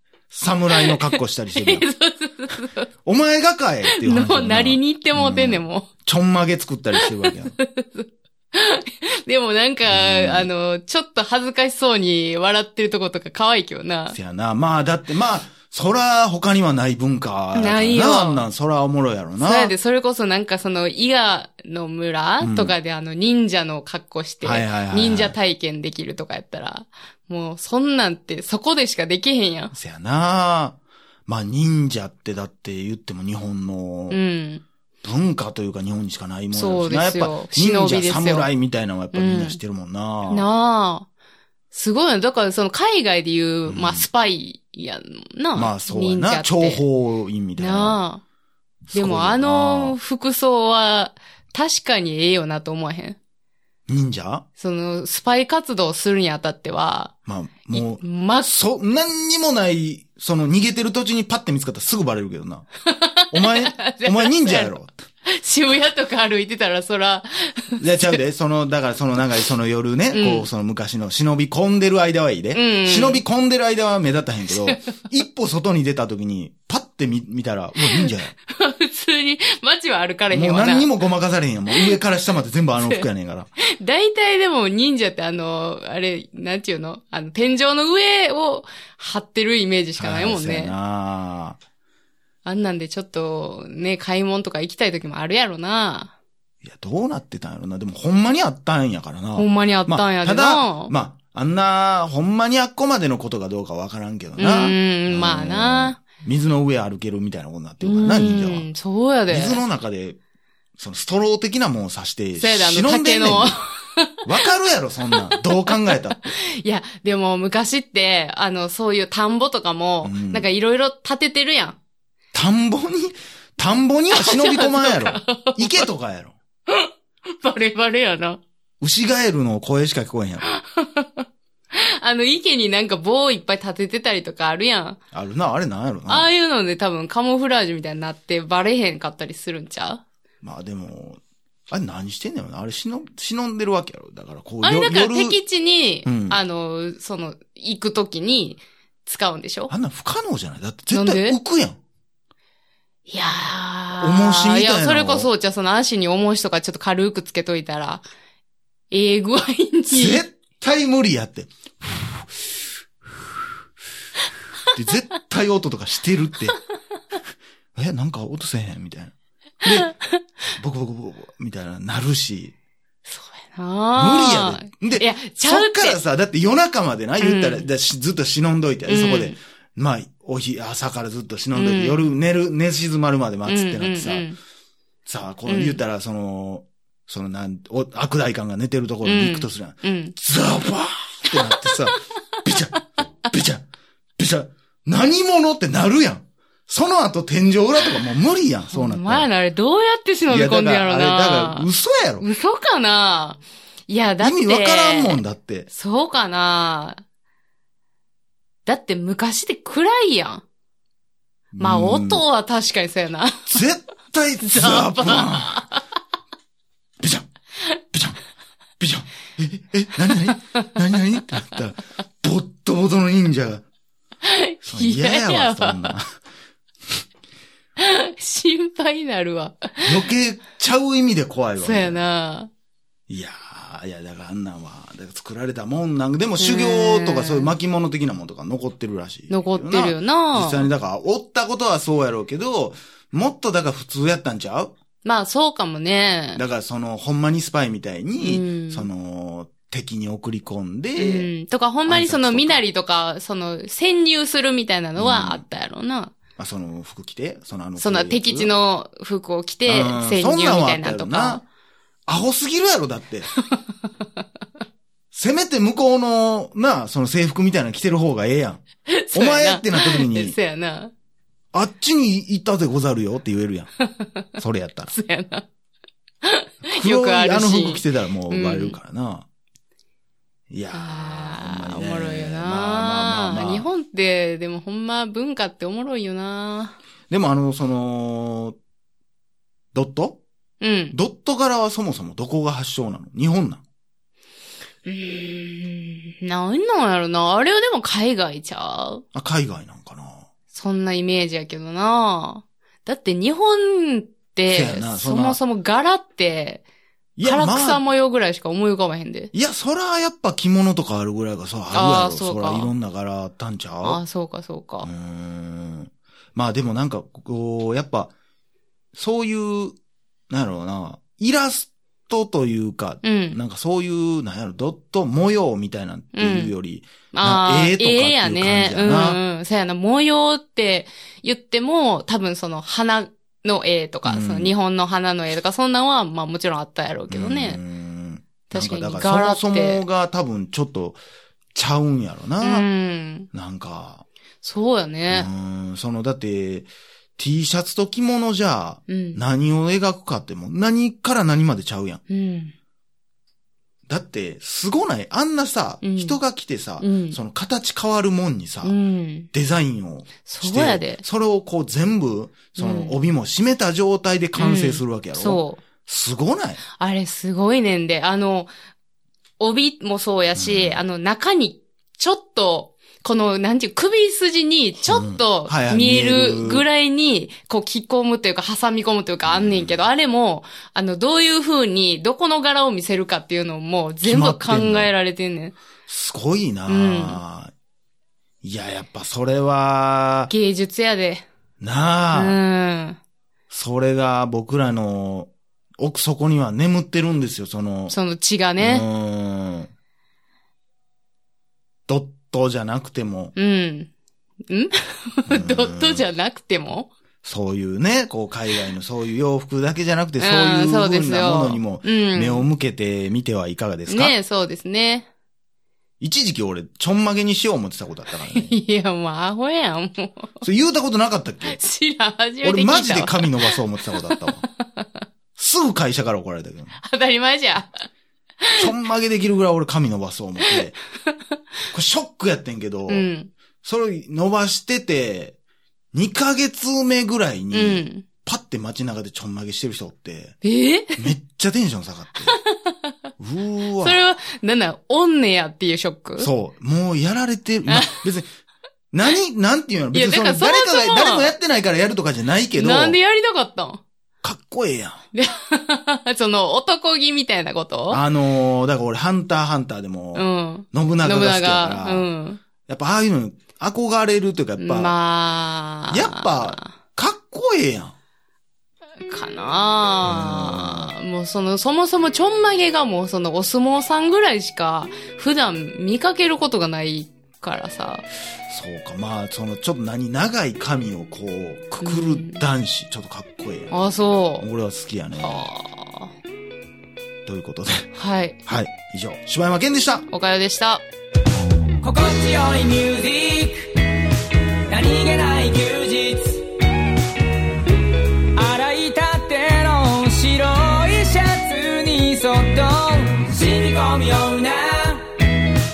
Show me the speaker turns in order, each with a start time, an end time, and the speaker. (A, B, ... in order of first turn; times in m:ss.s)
0:00.3-0:01.9 A
0:00.8-0:02.9 B
0:03.0-0:07.6 A
0:03.9-0:05.9 B
0:07.0-0:14.2 B
0:09.9-0:10.5 A
0:14.1-0:19.7 A
0:17.6-0:18.5 B
0:19.4-0:29.7 B
0:22.4-0:22.8 A
0:24.4-0:25.4 A
0:29.7-0:34.2 A
0:34.1-0:34.6 B
0:35.0-0:40.5 A
0:36.5-0:38.5 B
0:39.1-0:39.6 B
0:40.3-0:41.1 B
0:41.7-0:46.8 B
0:43.7-0:44.1 A
0:45.6-0:48.0 A
0:47.6-0:48.2 B
0:48.9-0:50.0 A
0:48.9-0:53.2 B
0:53.9-0:54.4 A
0:54.6-0:57.1 B
0:57.3-1:02.7 A
0:57.7-0:58.5 B
1:02.9-1:04.7 B
1:03.3-1:04.9 A
1:05.3-1:08.2 B
1:07.8-1:18.3 A
1:10.1-1:10.5 B
1:12.5-1:13.2 B
1:14.5-1:15.0 B
1:17.9-1:20.9 B
1:20.3-1:23.5 A
1:21.7-1:22.0 B
1:22.8-1:23.1 B
1:23.7-1:30.8 B
1:30.0-1:31.6 A
1:32.4-1:36.1 B
1:36.6-1:48.7 A
1:39.4-1:40.9 B
1:44.4-1:46.0 B
1:47.8-1:49.6 B
1:49.3-1:50.2 A
1:50.8-1:53.6 A
1:52.4-1:54.2 B
1:54.2-1:56.3 A
1:55.1-2:01.8 B
2:00.0-2:00.5 A
2:02.3-2:06.4 A
2:04.1-2:05.9 B
2:06.7-2:08.4 B
2:08.8-2:10.5 A
2:10.5-2:15.0 B
2:15.1-2:16.3 A
2:16.1-2:20.0 B
2:20.4-2:25.4 A
2:24.6-2:29.7 B
2:26.0-2:26.4 A
2:29.7-2:31.8 A
2:30.9-2:31.4 B
2:33.1-2:38.0 B
2:34.0-2:35.3 A
2:38.9-2:40.2 B
2:39.9-2:42.7 A
2:44.7-2:46.6 A
2:47.8-2:49.9 A
2:49.7-2:50.2 B
2:50.6-2:52.6 A
2:53.1-2:56.0 B
2:54.0-3:04.3 A
2:57.2-2:57.7 B
2:58.9-2:59.4 B
3:01.6-3:02.1 B
3:03.5-3:04.4 B
3:05.1-3:13.6 A
3:05.5-3:05.8 B
3:09.0-3:10.1 B
3:11.4-3:12.0 B
3:14.2-3:19.3 A
3:18.7-3:21.7 B
3:20.3-3:22.3 A
3:22.2-3:27.0 B
3:24.2-3:25.7 A
3:28.7-3:30.4 B
3:31.5-3:32.2 A
3:31.6-3:33.6 B
3:33.5-3:35.6 A
3:34.4-3:35.8 B
3:37.0-3:37.3 A
3:37.9-3:38.2 A
3:38.8-3:43.6 A
3:44.2-3:46.0 B
3:44.6-3:46.1 A
3:47.8-3:50.1 B
3:49.8-3:52.0 A
3:51.6-3:52.5 B
3:53.1-4:04.7 A
3:56.4-3:57.5 B
3:59.3-4:00.7 B
4:05.0-4:06.4 B
4:06.4-4:11.3 A
4:08.2-4:08.9 B
4:11.0-4:16.1 B
4:11.9-4:12.6 A
4:15.0-4:15.4 A
4:16.4-4:18.5 A
4:17.8-4:21.4 B
4:19.7-4:21.4 A
4:22.1-4:23.3 A
4:23.4-4:23.9 B
4:25.1-4:30.4 A
4:28.9-4:30.9 B
4:31.5-4:33.7 A
4:34.4-4:34.9 A
4:34.9-4:35.4 B
4:36.2-4:38.8 B
4:36.7-4:39.3 A
4:40.5-4:43.7 A
4:40.7-4:46.8 B
4:47.1-4:48.6 A
4:49.7-4:50.2 A
4:50.6-4:51.0 B
4:50.9-4:53.6 A
4:54.8-4:59.0 B
4:59.1-5:00.3 A
5:00.5-5:06.6 B
5:04.5-5:05.4 A
5:07.2-5:07.8 A
5:07.2-5:09.3 B
5:09.3-5:14.0 A
5:11.7-5:12.7 B
5:13.8-5:14.9 B
5:14.8-5:18.1 A
5:18.9-5:19.8 A
5:20.3-5:29.2 A
5:23.0-5:23.4 B
5:26.1-5:26.5 B
5:27.1-5:37.6 B
5:34.0-5:34.5 A
5:37.1-5:41.0 A
5:38.5-5:39.8 B
5:41.5-5:42.7 A
5:42.4-5:43.3 B
5:43.3-5:44.0 A
5:44.4-5:45.3 B
5:45.1-5:52.0 A
5:48.9-5:49.2 B
5:52.1-5:52.5 B
5:53.9-5:58.8 A
5:55.8-5:56.2 B
5:56.8-5:57.2 B
5:58.6-5:59.3 B
5:59.3-6:06.6 A
6:00.2-6:01.0 B
6:02.6-6:03.0 B
6:04.4-6:05.6 B
6:06.8-6:08.5 B
6:09.4-6:25.6 B
6:10.4-6:10.8 A
6:14.8-6:16.7 A
6:19.3-6:19.8 A
6:24.0-6:24.9 A
6:25.9-6:27.5 A
6:26.7-6:27.2 B
6:28.4-6:30.3 A
6:30.3-6:31.2 B
6:31.6-6:32.4 A
6:32.1-6:33.0 B
6:33.5-6:38.0 A
6:37.9-6:38.9 B
6:38.6-6:39.7 A
6:41.9-6:43.4 A
6:43.4-6:43.9 B
6:44.5-6:46.9 B
6:45.3-6:46.0 A
6:47.2-6:54.2 A
6:50.2-6:52.5 B
6:53.9-6:55.1 B
6:56.0-6:58.6 A
6:58.3-7:00.4 B
7:00.4-7:01.6 A
7:01.5-7:04.9 B
7:02.4-7:04.4 A
7:05.4-7:06.8 A
7:06.8-7:07.9 B
7:08.4-7:08.7 B
7:08.6-7:10.8 A
7:10.4-7:11.2 B
7:11.7-7:13.1 A
7:12.9-7:13.3 B
7:13.6-7:15.4 A
7:15.9-7:20.4 A
7:17.5-7:18.0 B
7:20.4-7:21.1 B
7:21.0-7:22.4 A
7:22.3-7:22.9 B
7:23.2-7:24.0 A
7:23.8-7:26.3 B
7:26.2-7:28.3 A
7:27.7-7:28.0 B
7:28.9-7:33.0 A
7:29.9-7:31.3 B
7:32.6-7:33.8 B
7:34.2-7:35.0 A
7:35.1-7:38.0 B
7:37.9-7:42.1 A
7:40.2-7:42.4 B
7:42.7-7:44.9 A
7:44.6-7:46.7 B
7:45.9-7:47.9 A
7:49.1-7:58.0 B
7:50.0-7:50.9 A
7:58.5-8:03.7 A
8:01.8-8:02.4 B
8:03.7-8:04.5 B
8:04.4-8:05.4 A
8:05.2-8:06.1 B
8:07.3-8:07.9 A
8:07.9-8:08.4 B
8:08.5-8:10.1 A
8:10.1-8:10.8 B
8:11.8-8:13.8 C
8:14.7-8:16.5 C
8:18.4-8:25.1 C